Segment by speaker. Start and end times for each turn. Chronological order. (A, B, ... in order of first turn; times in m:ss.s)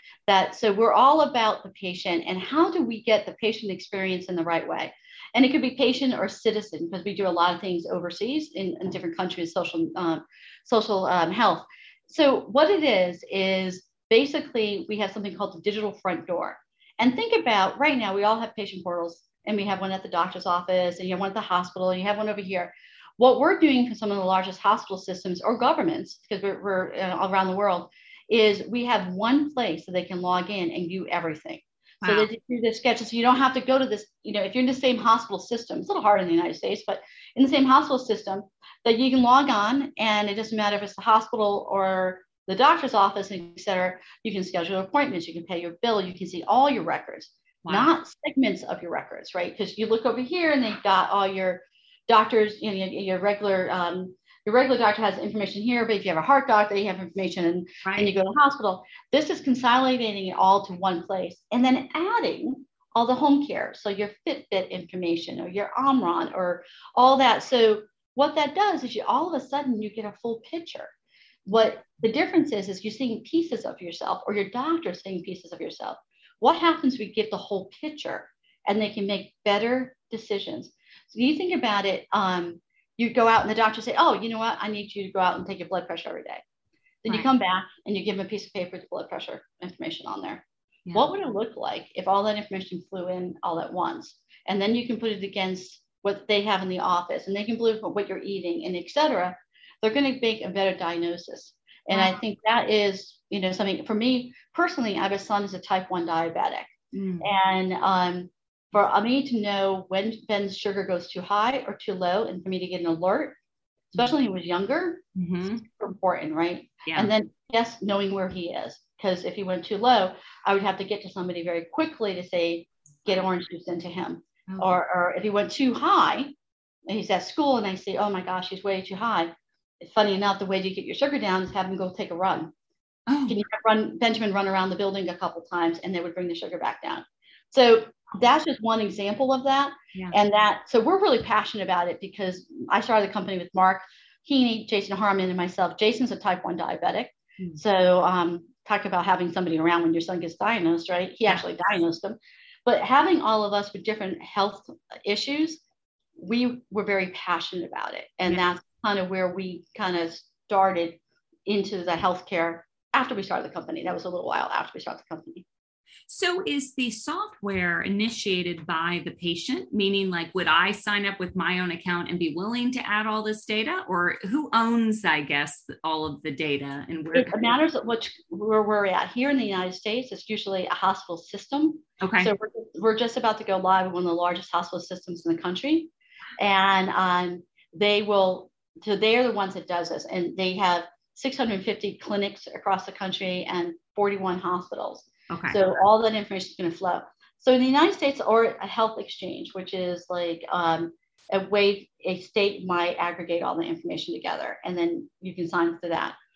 0:00.3-1:10.9 A
0:32.0-0:32.3 B
0:47.6-0:47.9 B
0:57.8-0:58.1 B
1:11.5-1:26.4 A
1:27.0-1:53.4 A
1:30.9-1:31.1 B
1:41.9-1:42.2 B
1:46.9-1:47.3 B
1:53.9-2:06.3 A
1:55.2-1:55.6 B
1:56.8-1:57.1 B
2:04.5-2:04.8 B
2:06.9-2:12.5 A
2:13.1-2:13.4 B
2:13.3-2:35.6 A
2:36.2-2:45.4 A
2:46.1-2:57.5 B
2:57.1-3:26.2 A
3:02.0-3:02.3 B
3:15.3-3:15.6 B